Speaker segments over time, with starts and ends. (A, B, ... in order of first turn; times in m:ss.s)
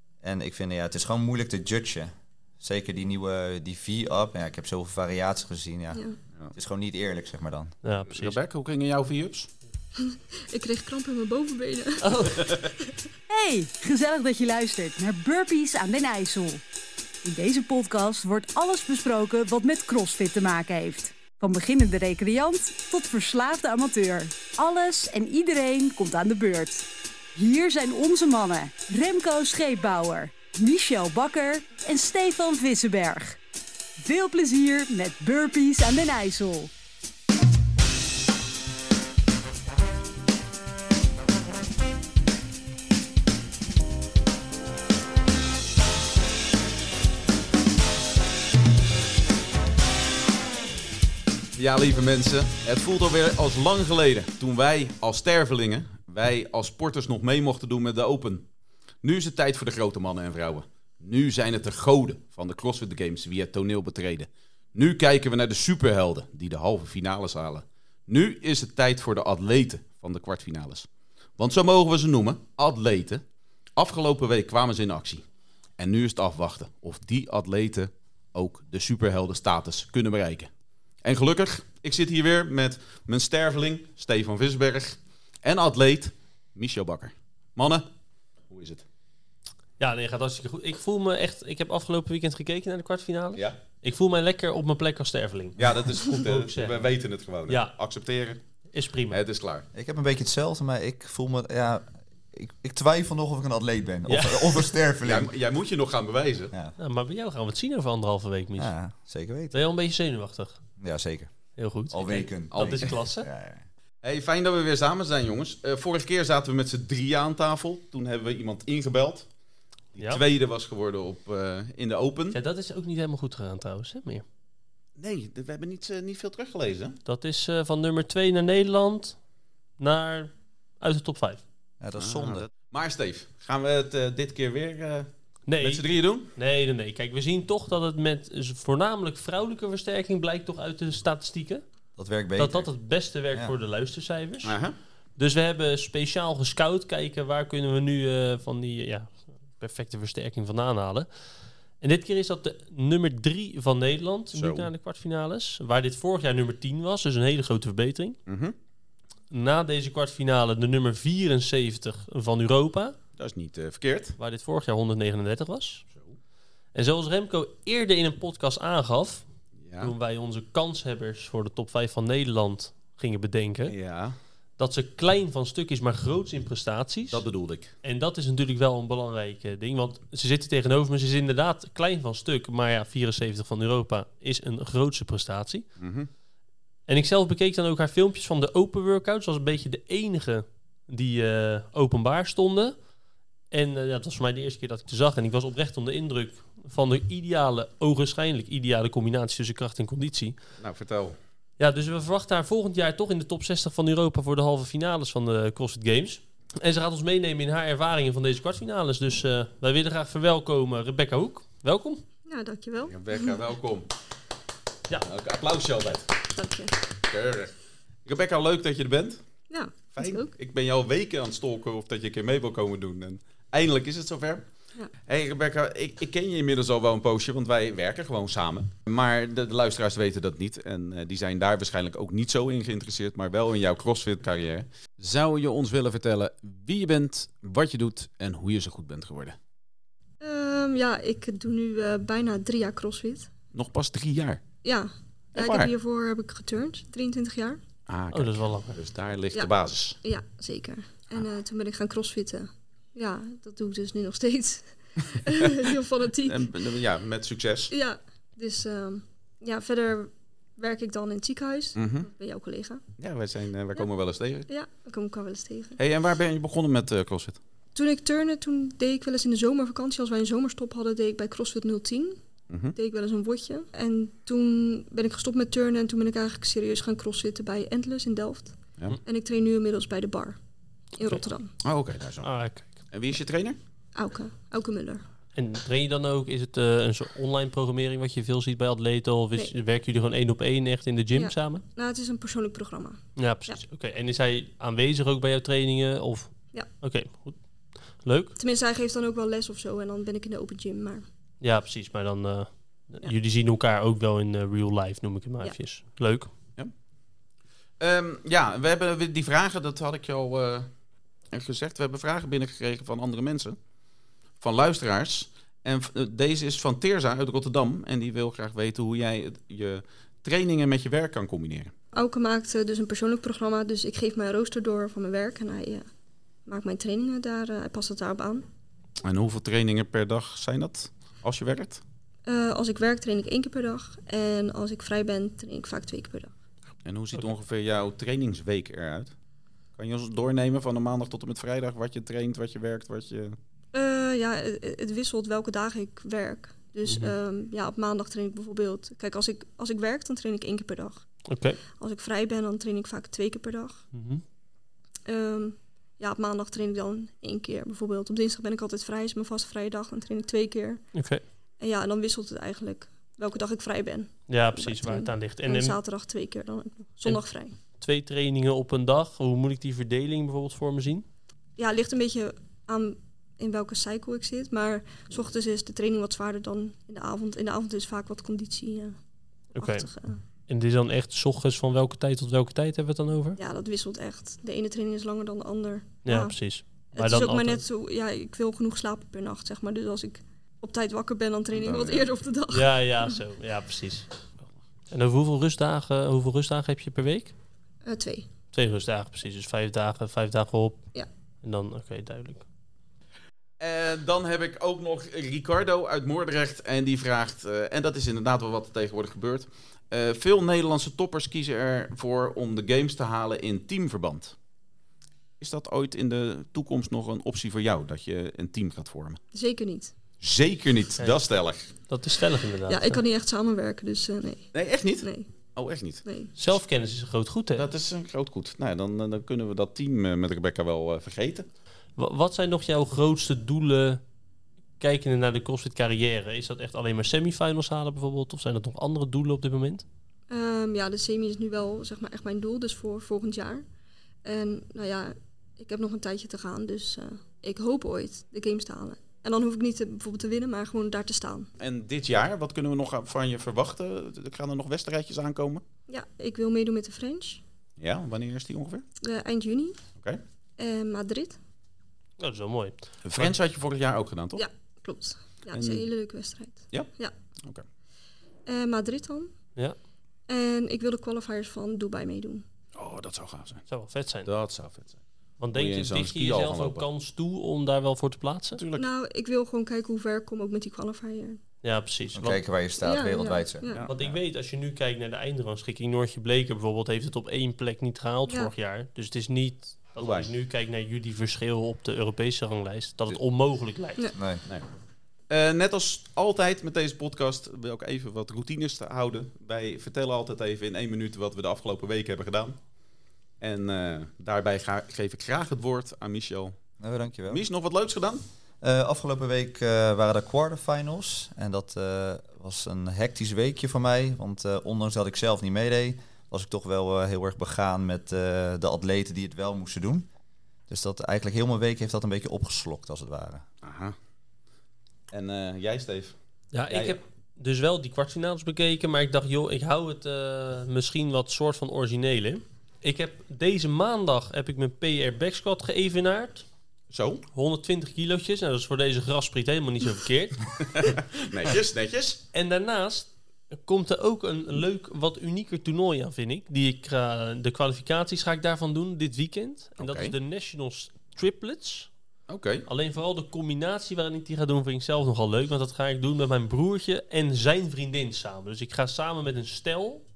0:00.2-0:07.8 A
0:05.9-0:06.2 B
0:07.8-0:08.4 C
0:08.1-0:09.5 D
0:10.0-0:12.9 B
0:12.0-0:12.6 C
0:13.3-0:16.6 E
0:17.2-0:33.4 E
0:34.0-0:36.7 E
0:51.6-0:58.5 D
0:59.0-1:13.2 D
1:13.8-1:15.2 D
1:15.8-1:20.5 D
1:21.0-1:27.8 D
1:28.5-1:28.8 D
1:29.8-1:36.9 C
1:35.6-1:38.4 D
1:37.5-1:37.7 C
1:38.7-1:39.2 C
1:39.1-1:39.7 D
1:39.7-1:45.3 A
1:44.0-1:44.7 C
1:45.0-1:46.5 D
1:46.8-1:48.7 C
1:48.6-1:49.6 A
1:49.5-1:50.6 C
1:50.8-1:51.3 A
1:51.6-1:53.3 C
1:51.9-1:53.6 A
1:52.5-1:52.9 D
1:54.0-1:59.3 D
1:59.9-2:02.4 D
2:00.0-2:00.2 C
2:02.3-2:04.2 C
2:05.0-2:07.0 D
2:07.0-2:09.2 C
2:09.8-2:11.4 C
2:11.8-2:12.5 A
2:12.0-2:16.3 D
2:15.5-2:21.6 C
2:22.0-2:22.7 A
2:22.4-2:24.6 C
2:24.4-2:24.7 D
2:25.2-2:31.1 C
2:31.8-2:38.2 C
2:34.3-2:34.7 D
2:38.3-2:38.5 D
2:39.3-2:43.0 C
2:43.2-2:44.2 D
2:44.2-2:45.8 C
2:45.9-2:46.2 D
2:46.7-2:49.2 C
2:49.6-2:49.9 D
2:49.8-2:53.8 C
2:53.7-2:54.1 D
2:54.6-2:57.2 C
2:57.1-2:57.7 D
2:57.8-3:05.7 C
3:05.8-3:06.1 D
3:06.9-3:12.8 C
3:13.5-3:20.4 C
3:20.6-3:21.2 D
3:21.6-3:32.0 C
3:32.2-3:33.4 B
3:32.9-3:33.9 D
3:35.0-3:36.2 D
3:36.3-3:36.8 B
3:37.0-3:37.5 D
3:38.0-3:39.2 D
3:39.5-3:40.3 B
3:39.9-3:44.4 D
3:45.0-3:59.4 D
4:00.2-4:03.3 B
4:03.5-4:04.4 D
4:04.6-4:07.6 B
4:05.3-4:05.7 D
4:07.9-4:10.0 D
4:08.1-4:08.8 C
4:10.0-4:16.7 B
4:16.2-4:17.7 D
4:17.7-4:22.8 B
4:21.8-4:22.1 D
4:23.0-4:24.5 D
4:24.5-4:25.8 B
4:25.8-4:27.4 D
4:27.7-4:32.2 B
4:32.5-4:32.8 D
4:32.7-4:40.4 B
4:40.9-4:41.5 B
4:41.6-4:42.3 D
4:42.2-4:42.8 C
4:42.9-4:43.6 D
4:43.9-4:45.0 B
4:45.3-4:51.6 C
4:51.1-4:53.6 B
4:53.2-4:57.4 C
4:58.0-4:58.3 C
4:58.4-5:01.1 B
5:01.4-5:06.3 C
5:07.8-5:10.7 D
5:11.3-5:13.6 D
5:14.4-5:21.7 D
5:21.9-5:25.9 B
5:26.4-5:28.4 B
5:29.0-5:31.8 D
5:32.2-5:36.3 B
5:36.8-5:39.1 D
5:39.8-5:43.4 D
5:43.7-5:51.1 B
5:46.8-5:47.1 C
5:51.3-5:51.6 C
5:51.8-5:53.8 B
5:53.9-5:54.2 C
5:55.0-6:00.8 B
6:00.9-6:01.2 C
6:01.6-6:07.5 B
6:04.3-6:05.8 C
6:07.8-6:11.0 C
6:11.6-6:19.0 B
6:19.5-6:19.9 C
6:19.6-6:20.2 B
6:20.5-6:23.4 C
6:23.4-6:26.4 B
6:26.0-6:27.6 C
6:26.9-6:32.7 B
6:31.6-6:32.1 D
6:32.5-6:34.1 C
6:34.9-6:37.3 C
6:37.8-6:38.3 B
6:38.5-6:40.8 C
6:41.4-6:42.4 C
6:43.6-6:54.4 D
6:55.4-6:59.2 D
6:59.3-6:59.9 B
7:00.2-7:01.7 D
7:01.9-7:03.0 C
7:02.7-7:05.3 B
7:04.5-7:06.0 D
7:06.0-7:06.3 B
7:06.4-7:07.7 C
7:07.6-7:11.5 D
7:12.0-7:14.0 C
7:14.8-7:19.8 C
7:20.3-7:23.6 B
7:24.2-7:31.5 B
7:31.6-7:35.6 D
7:35.9-7:37.4 B
7:37.8-7:38.8 D
7:39.0-7:39.8 B
7:40.6-7:41.4 B
7:42.2-7:43.3 C
7:43.0-7:44.4 D
7:44.4-7:47.1 B
7:45.5-7:45.8 D
7:48.4-7:49.3 B
7:50.3-7:52.4 B
7:52.7-7:53.6 D
7:53.7-7:54.3 C
7:54.2-7:55.0 D
7:55.4-7:58.6 C
7:55.5-7:56.8 D
7:58.5-7:58.9 D
7:58.8-8:01.4 B
8:01.6-8:02.4 C
8:02.1-8:03.7 A
8:02.8-8:03.9 B
8:03.7-8:04.1 D
8:03.8-8:14.1 C
8:10.0-8:10.3 D
8:14.2-8:14.4 A
8:15.3-8:22.6 D
8:23.4-8:26.6 D
8:26.8-8:27.4 A
8:27.3-8:28.2 D
8:28.6-8:40.1 A
8:40.7-8:43.4 A
8:43.6-8:43.9 D
8:45.1-8:46.1 D
8:46.5-8:56.5 C
8:46.7-8:47.0 D
8:56.9-8:57.2 D
8:57.3-9:00.6 C
9:00.7-9:02.2 D
9:02.3-9:11.9 C
9:09.8-9:10.1 D
9:12.3-9:12.7 D
9:12.6-9:20.0 C